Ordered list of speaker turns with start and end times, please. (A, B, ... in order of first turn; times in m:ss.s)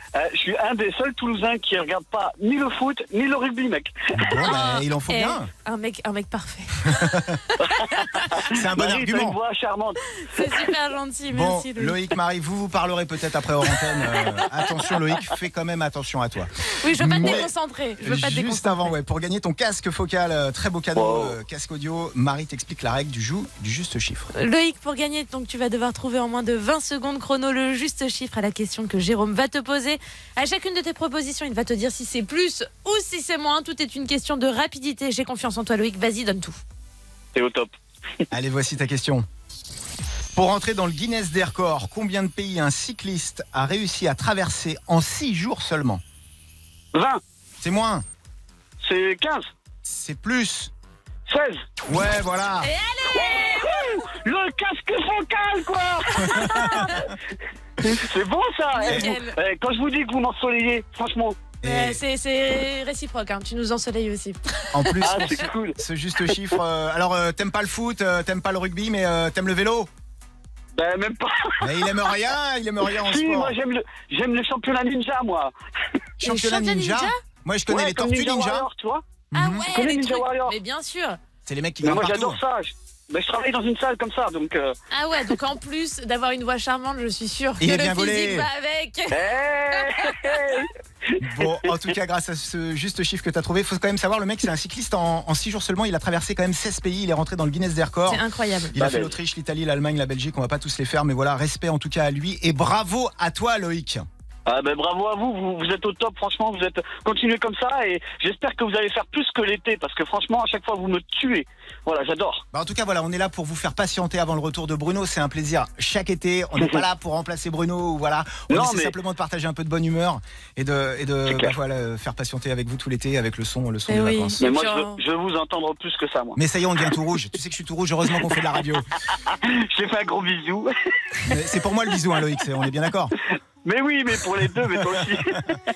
0:00.1-0:04.1 A
0:04.1-0:05.5 B
0:04.4-0:08.3 C
0:06.9-0:07.4 B
0:07.6-0:10.5 A
0:08.4-0:09.4 B
0:10.2-0:12.0 C
0:11.3-0:17.5 B
0:16.8-0:18.9 C
0:18.0-0:24.3 B
0:20.9-0:21.3 A
0:24.3-0:36.6 C
0:37.3-0:37.7 A
0:38.3-0:39.3 B
0:40.3-0:46.0 B
0:46.9-0:47.2 A
0:47.6-0:48.0 B
0:48.8-0:49.4 A
0:49.8-0:50.7 B
0:51.3-0:51.7 A
0:51.8-0:52.7 B
0:52.6-0:53.9 C
0:53.1-0:56.2 A
0:56.2-0:57.0 B
0:56.2-0:57.1 C
0:57.8-1:01.4 A
0:58.7-0:59.4 C
0:58.8-0:59.1 B
1:01.6-1:02.0 B
1:01.6-1:05.2 C
1:04.7-1:09.9 B
1:05.0-1:05.8 A
1:10.7-1:12.0 A
1:11.6-1:13.6 B
1:12.9-1:15.5 A
1:16.2-1:18.6 B
1:16.2-1:17.2 C
1:17.7-1:19.0 A
1:19.3-1:19.7 B
1:19.3-1:21.2 C
1:19.7-1:20.6 A
1:21.4-1:22.4 B
1:21.8-1:24.7 A
1:24.9-1:30.4 C
1:27.6-1:28.5 B
1:29.1-1:30.7 A
1:31.2-1:38.2 B
1:31.4-1:31.7 A
1:38.1-1:38.8 C
1:38.7-1:44.0 B
1:38.8-1:39.1 A
1:44.5-1:52.4 A
1:52.5-2:04.4 B
1:58.5-1:58.9 A
2:01.3-2:01.5 A
2:03.9-2:05.0 C
2:04.4-2:06.4 A
2:06.4-2:08.8 B
2:09.1-2:10.7 A
2:11.3-2:13.1 B
2:13.6-2:15.5 A
2:14.9-2:15.4 B